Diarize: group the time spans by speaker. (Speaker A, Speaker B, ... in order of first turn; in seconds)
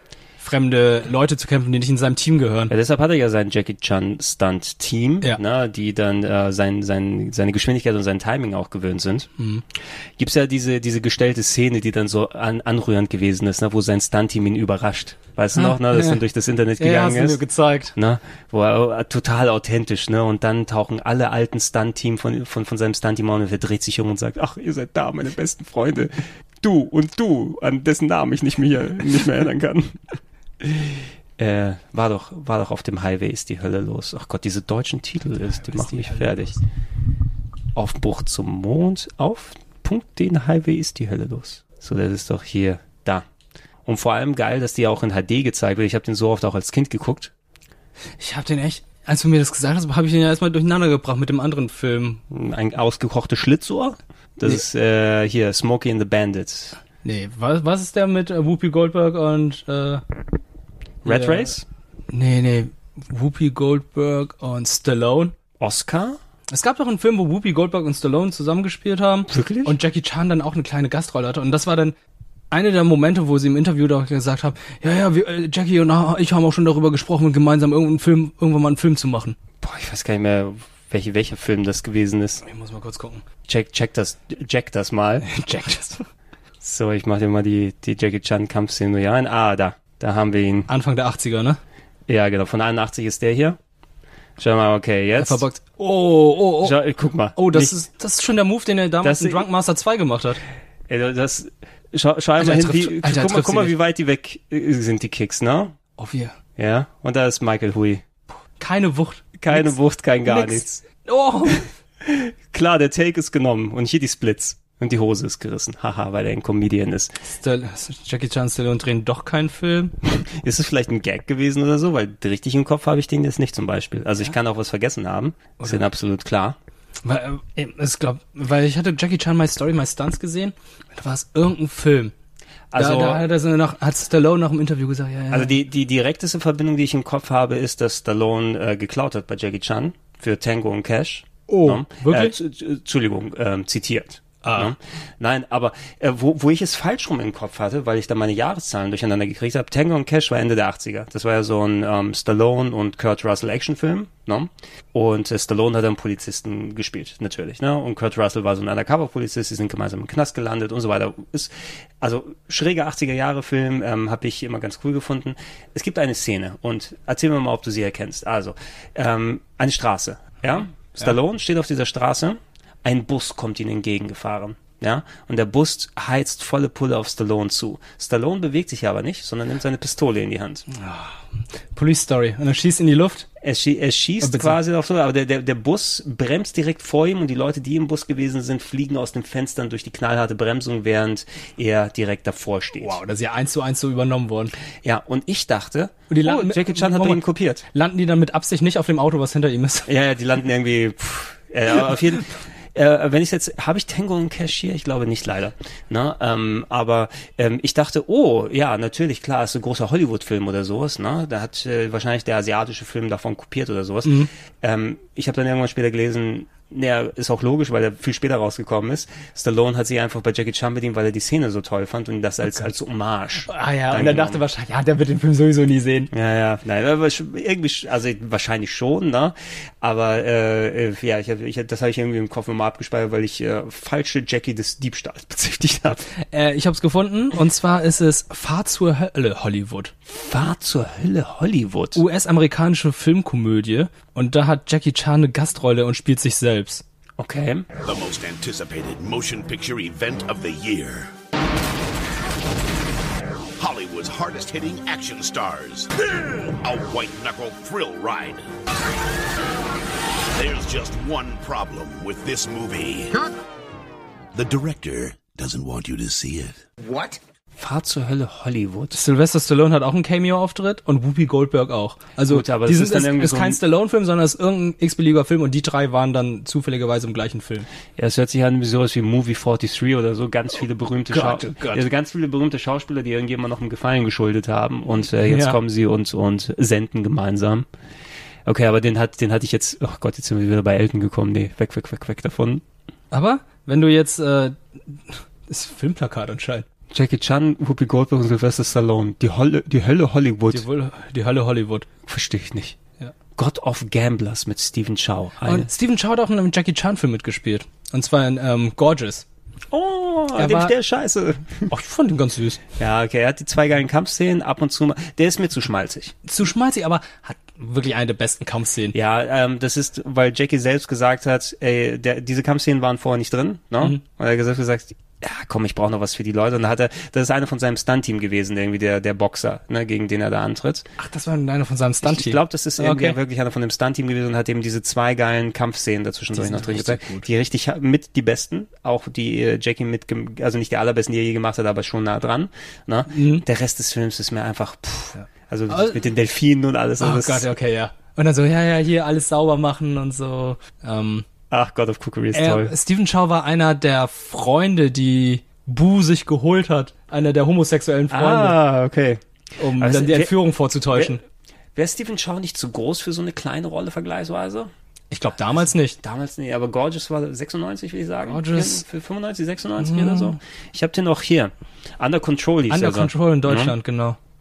Speaker A: 0.4-2.7, 9.4-9.6, 15.6-16.2, 16.8-17.9, 35.5-36.6, 48.2-52.2, 57.0-60.0, 61.0-61.5, 62.1-65.3, 66.5-72.0, 72.5-79.4, 82.4-83.2, 85.2-86.1, 90.7-91.6, 95.2-96.8, 97.3-100.4, 102.4-103.8, 106.0-106.3, 108.6-111.7, 117.2-119.9, 127.0-132.1, 132.8-135.6, 141.5-142.3, 144.4-144.7, 180.7-181.2, 181.7-183.3, 184.2-184.6, 192.8-194.6, 196.1-199.9, 223.5-226.1, 236.3-239.9, 241.9-246.8, 268.9-277.7, 281.1-281.9, 285.2-285.6, 293.1-296.7, 300.5-301.9, 305.4-309.2, 310.4-310.7, 311.7-312.6, 316.3-319.0, 331.0-333.2, 336.3-337.3, 343.1-343.4, 345.1-346.0, 347.0-351.2, 352.3-358.6, 359.6-361.2, 365.1-366.0, 368.2-368.8, 369.8-370.4, 372.7-374.2
Speaker B: 2.7-9.3, 10.2-17.4, 17.9-30.0, 30.6-36.6, 37.7-43.3, 43.9-47.3, 52.3-56.8, 61.0-61.7, 65.6-66.2, 69.3-69.8, 79.6-82.4, 83.5-85.3, 86.6-90.7, 92.1-93.6, 94.4-95.5, 96.6-97.8, 99.0-99.5, 100.9-105.8, 106.6-108.0, 109.4-110.8, 112.0-117.2, 120.0-126.6, 132.7-133.2, 135.3-180.7, 183.4-193.0, 194.8-197.7, 199.9-224.4, 226.1-236.0, 240.1-242.0, 247.2-247.7, 267.6-269.0, 272.3-273.6, 278.0-287.7, 288.5-292.6, 296.9-300.7, 302.1-302.8, 303.4-305.7, 309.7-311.7, 312.8-316.1, 318.9-330.9, 332.0-347.5, 351.5-352.8, 358.1-359.2, 359.8-360.4, 360.9-361.2, 361.8-364.7, 365.5-373.8
Speaker C: 247.8-251.1, 253.6-255.9, 256.6-258.4, 260.3-263.2, 264.4-266.6